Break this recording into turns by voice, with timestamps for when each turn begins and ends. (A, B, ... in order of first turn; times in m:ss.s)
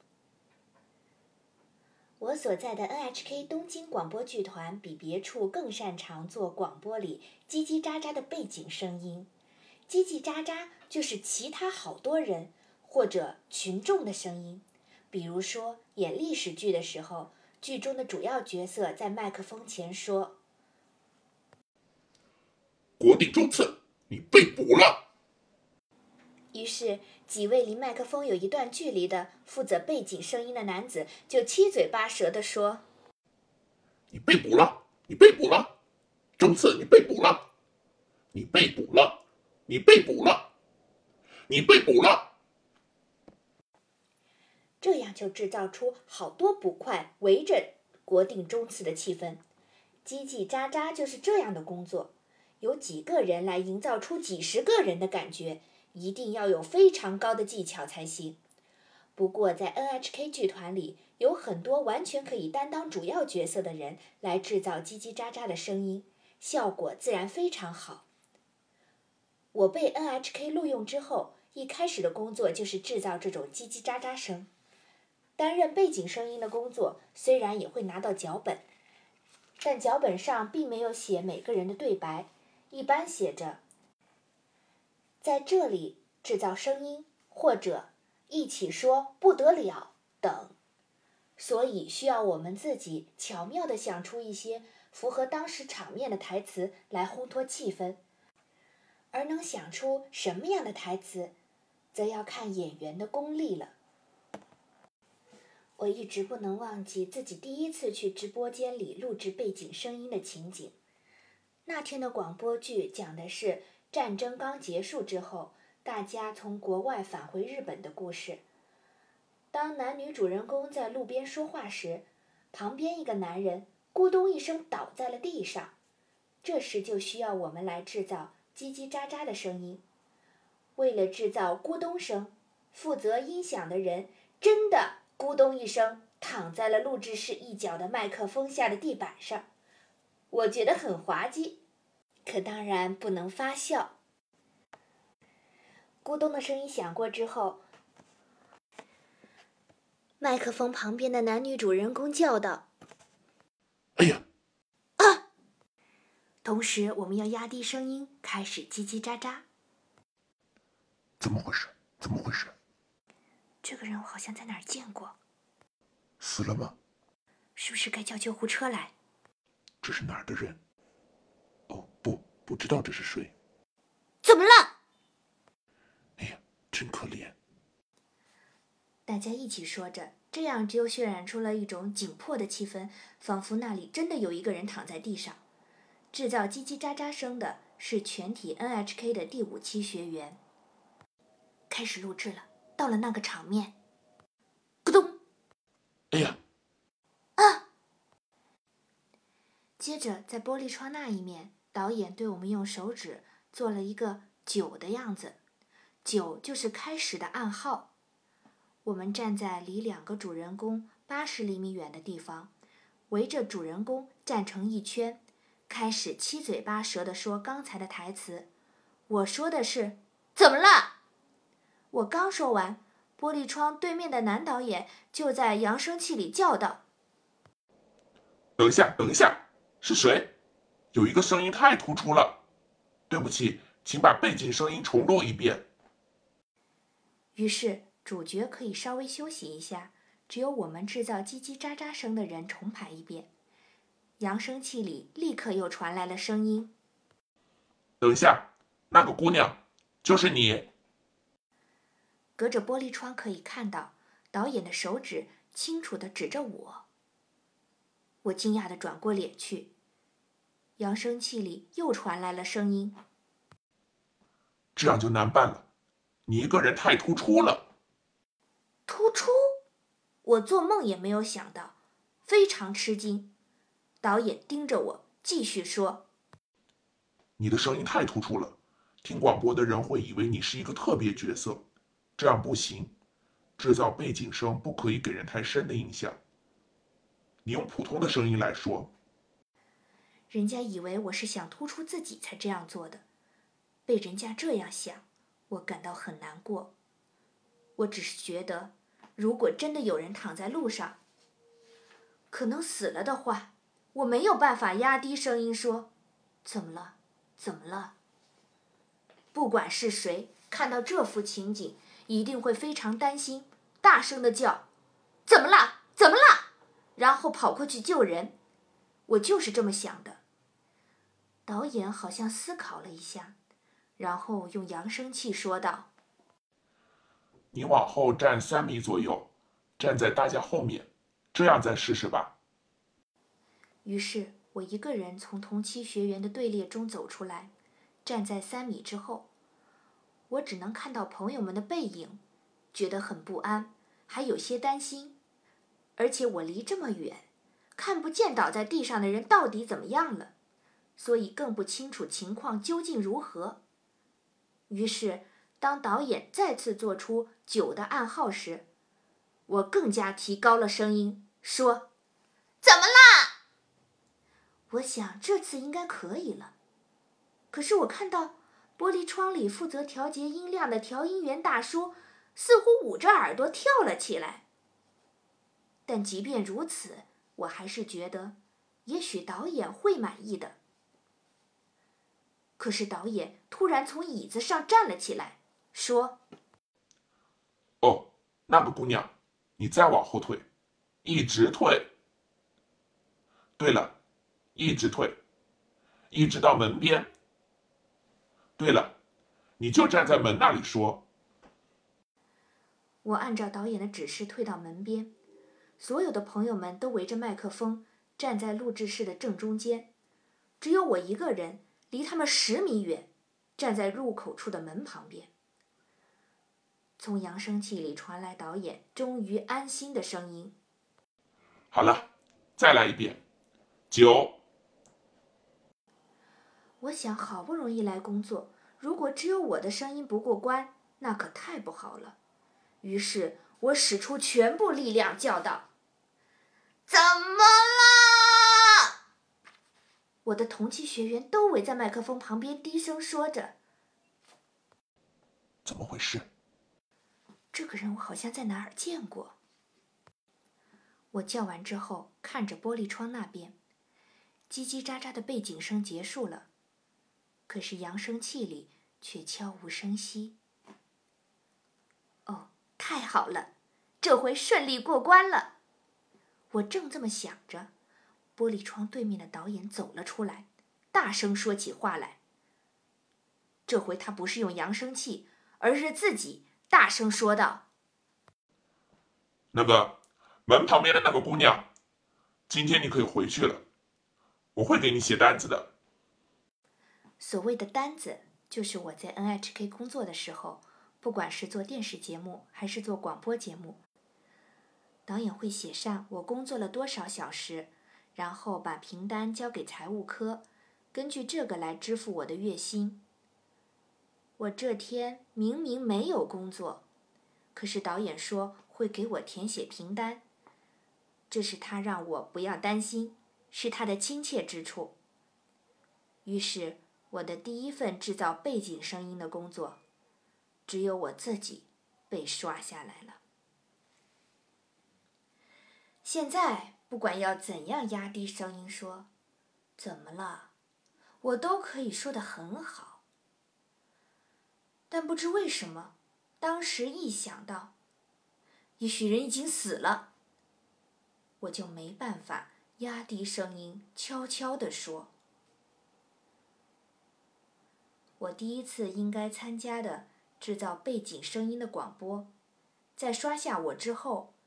0:02.2-0:09.3 A
0:09.9-0:20.4 A
0:23.0-0:25.0 B
0:26.5-0:32.8 A
0:34.1-0:35.7 B
0:36.4-0:37.4 B
0:38.3-0:40.5 B
0:41.5-0:42.3 B
0:44.8-0:49.4 A
0:50.0-0:58.4 A
0:59.2-1:08.0 A
1:09.5-1:14.5 A
1:15.4-1:18.6 A
1:19.6-1:23.6 A
1:25.2-1:30.6 A
1:31.4-1:38.0 A
1:39.1-1:41.3 A
1:41.9-1:43.7 A
1:45.8-1:50.8 A
1:51.6-1:58.4 A
1:59.5-2:05.7 A
2:06.4-2:09.8 A
2:10.8-2:19.5 A
2:20.3-2:21.6 A
2:22.2-2:24.0 A
2:26.0-2:27.6 A
2:30.2-2:32.6 A
2:34.0-2:34.2 B
2:36.4-2:39.4 A
2:41.2-2:42.5 B
2:43.6-2:45.2 A
2:46.2-2:46.7 B
2:47.6-2:48.9 A
2:49.8-2:50.6 B
2:51.7-2:53.3 B
2:54.2-2:54.7 A
2:56.2-2:57.4 B
2:59.0-3:05.4 A
3:06.1-3:10.4 A
3:11.7-3:13.7 A
3:14.8-3:15.2 A
3:16.1-3:16.4 B
3:17.4-3:17.6 A
3:19.8-3:25.4 A
3:26.0-3:27.9 A
3:28.8-3:32.5 A
3:33.1-3:38.5 A
3:39.1-3:40.9 A
3:41.9-3:46.8 A
3:48.6-3:50.3 B
3:50.9-3:52.4 B
3:53.1-3:55.6 B
3:57.3-4:03.3 A
4:04.2-4:06.7 A
4:08.0-4:10.7 B
4:12.4-4:16.8 A
4:18.2-4:19.7 A
4:20.8-4:23.0 A
4:24.8-4:25.6 B
4:26.2-4:27.6 B
4:28.9-4:29.5 A
4:30.2-4:33.3 A
4:34.0-4:36.0 A
4:37.4-4:41.6 B
4:42.2-4:42.9 B
4:43.6-4:46.2 B
4:47.4-4:48.9 B
4:50.3-4:53.0 A
4:53.8-4:56.7 A
4:57.8-5:01.0 A
5:02.3-5:05.9 A
5:06.4-5:07.9 A
5:09.3-5:14.6 A
5:15.2-5:18.3 A
5:19.1-5:20.2 A
5:21.4-5:23.4 A
5:24.0-5:25.9 A
5:27.5-5:32.3 B
5:33.8-5:37.5 A
5:38.0-5:39.3 A
5:40.3-5:42.2 A
5:42.7-5:45.2 A
5:46.0-5:50.3 A
5:51.0-5:53.6 A
5:54.7-5:58.6 A
5:59.5-6:01.9 A
6:02.6-6:03.3 A
6:04.7-6:06.5 A
6:07.5-6:14.4 A
6:15.8-6:20.6 A
6:22.6-6:26.2 A
6:27.8-6:30.4 B
6:31.0-6:31.9 B
6:33.6-6:33.9 B
6:34.6-6:35.2 B
6:36.1-6:37.1 B
6:38.6-6:38.9 B
6:39.6-6:41.0 B
6:43.0-6:45.1 A
6:45.8-6:49.9 A
6:50.6-6:55.3 A
6:57.0-7:00.5 A
7:01.7-7:03.2 B
7:03.9-7:04.4 B
7:06.8-7:12.2 A
7:12.8-7:15.7 A
7:16.9-7:18.8 A
7:20.2-7:23.5 A
7:25.6-7:26.3 B
7:27.5-7:29.4 A
7:31.1-7:33.6 A
7:34.5-7:36.5 A
7:37.5-7:40.4 A
7:42.3-7:43.5 A
7:44.0-7:45.5 A
7:46.5-7:47.7 A
7:48.4-7:52.2 A
7:53.7-7:57.6 A
7:59.5-8:01.7 B
8:02.5-8:03.6 B
8:04.5-8:05.7 B
8:07.2-8:13.8 A
8:15.0-8:23.0 A
8:24.4-8:26.8 A
8:27.5-8:30.2 A
8:31.3-8:35.0 A
8:36.2-8:39.8 A
8:40.6-8:43.2 A
8:46.0-8:49.1 A
8:49.8-8:50.5 A
8:51.2-8:53.0 A
8:54.9-8:57.7 A
8:58.8-9:00.1 A
9:01.4-9:05.1 A
9:08.2-9:12.3 A
9:13.0-9:14.3 A